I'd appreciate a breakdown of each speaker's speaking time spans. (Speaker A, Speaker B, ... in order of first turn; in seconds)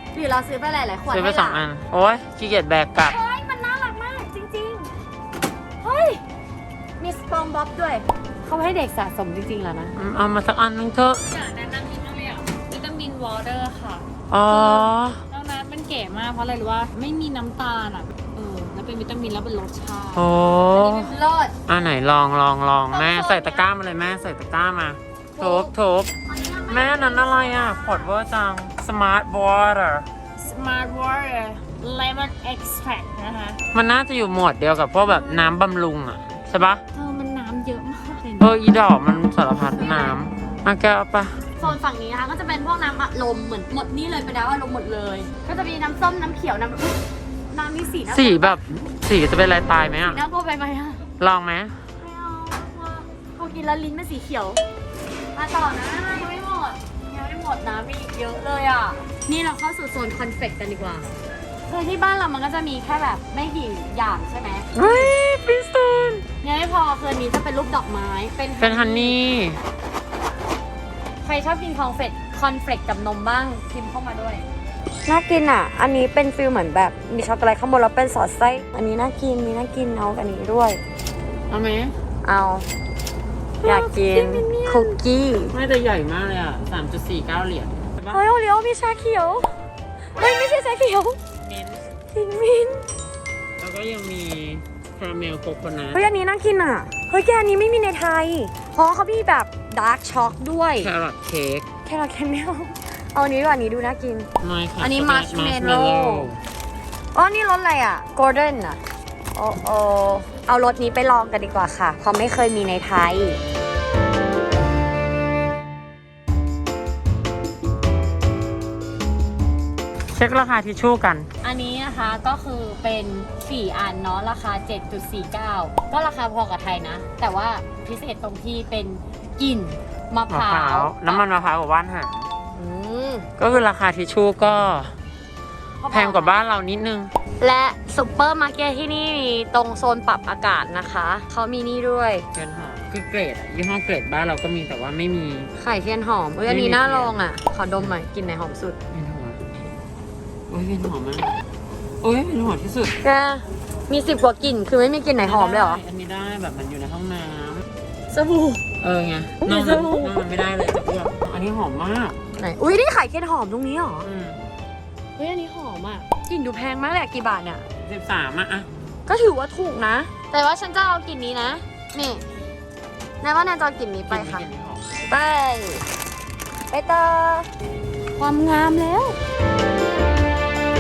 Speaker A: 0.1-1.7, 3.1-4.9, 5.8-6.2, 7.0-9.9, 12.8-14.0, 16.9-20.1, 20.7-21.5, 22.9-23.6, 25.4-25.7, 26.3-28.1, 30.4-33.5, 36.9-38.5, 39.7-40.2, 41.6-47.0, 47.5-48.6, 50.0-51.0, 52.0-54.6, 55.4-61.1, 61.7-65.2, 66.4-69.4, 71.2-74.5, 75.1-80.8, 82.2-82.7, 83.6-85.5, 88.1-89.5, 90.2-91.2, 92.1-92.9, 95.9-100.9, 101.8-104.3, 104.8-106.3, 107.1-108.8, 109.3-113.4, 121.4-131.2, 132.6-133.3, 135.8-136.4, 137.4-142.3, 145.6-148.8, 153.0-155.8, 158.1-158.6, 159.4-160.2, 162.4-164.1, 165.2-167.6, 169.1-172.2, 173.2-174.5, 175.1-175.9, 176.7-177.5, 178.2-179.2
Speaker B: 1.1-3.2, 10.0-11.2, 14.3-15.2, 20.1-21.1, 21.7-26.1, 26.7-30.1, 33.7-36.8, 38.4-41.8, 48.1-50.2, 51.2-51.8, 64.7-66.2, 68.6-69.6, 81.5-82.0, 83.7-84.5, 85.5-88.2, 91.4-91.8, 93.6-96.0, 100.8-101.7, 104.4-106.4, 120.1-121.3, 130.3-132.3, 133.4-134.9, 135.9-137.1, 142.3-145.5, 146.5-147.2, 148.9-149.4, 150.5-151.3, 152.0-152.9, 155.2-157.7, 158.8-162.2, 164.0-164.4, 167.8-168.7, 174.1-174.8
Speaker C: 11.3-18.1, 18.9-20.2, 31.8-32.2, 33.3-33.6, 83.7-84.8